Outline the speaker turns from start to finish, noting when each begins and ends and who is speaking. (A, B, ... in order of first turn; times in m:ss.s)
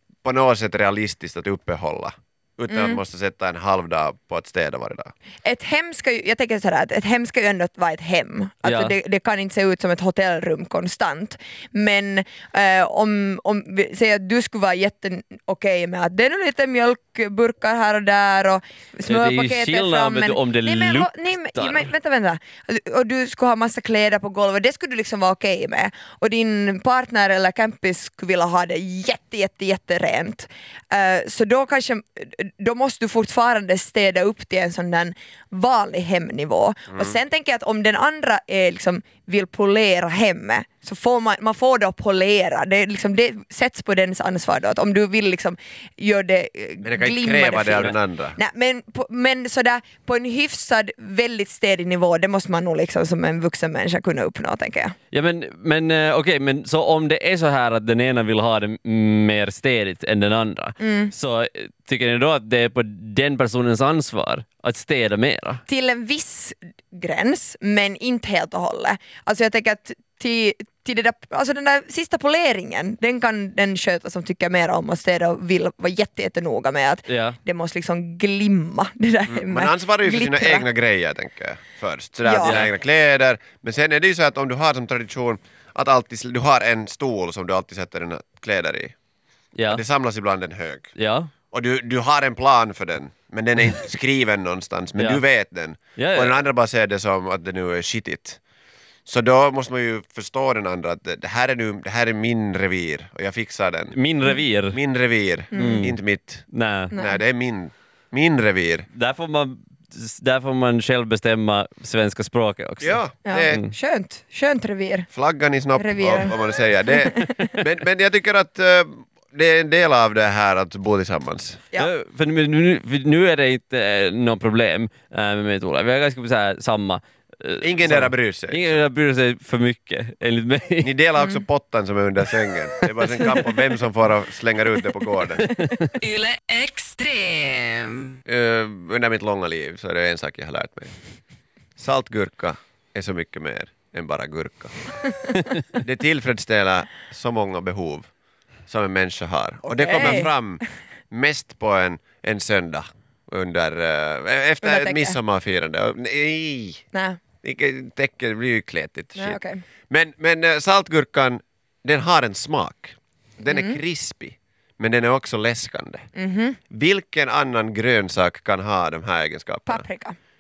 0:00.2-0:05.1 A
0:02.7-0:03.0 B
0:05.4-0:54.9 B
0:08.6-0:08.9 C
0:19.1-0:21.9 C
0:36.9-0:37.2 A
0:46.8-0:48.4 A
0:55.1-1:05.6 C
1:00.8-1:01.1 B
1:05.7-1:20.7 B
1:17.1-1:17.4 C
1:19.3-1:28.9 A
1:22.2-1:22.6 B
1:22.4-1:22.7 C
1:29.6-1:29.8 C
1:29.7-1:30.9 A
1:31.0-1:31.3 C
1:31.5-1:38.4 A
1:35.0-1:35.2 C
1:36.0-1:36.4 C
1:39.1-1:43.9 A
1:43.9-1:44.8 C
1:44.7-1:48.9 A
1:45.5-1:45.9 B
1:45.5-1:46.0 C
1:46.5-1:46.9 C
1:46.9-1:47.2 B
1:48.9-1:53.7 C
1:52.8-1:53.6 A
1:53.2-1:55.1 B
1:55.1-2:01.6 A
1:55.8-1:56.3 B
1:56.9-1:57.6 B
2:01.8-2:10.9 C
2:07.6-2:08.8 A
2:10.8-2:15.6 A
2:12.9-2:13.6 C
2:15.5-2:15.8 C
2:16.0-2:18.2 D
2:18.3-2:20.9 A
2:21.8-2:24.8 A
2:25.8-2:28.1 A
2:28.7-2:36.8 A
2:29.7-2:30.4 B
2:34.6-2:35.2 B
2:36.9-2:37.2 B
2:37.4-2:46.1 A
2:39.2-2:39.6 B
2:43.4-2:43.8 B
2:46.2-2:46.6 B
2:46.7-2:49.8 A
2:49.7-2:50.2 B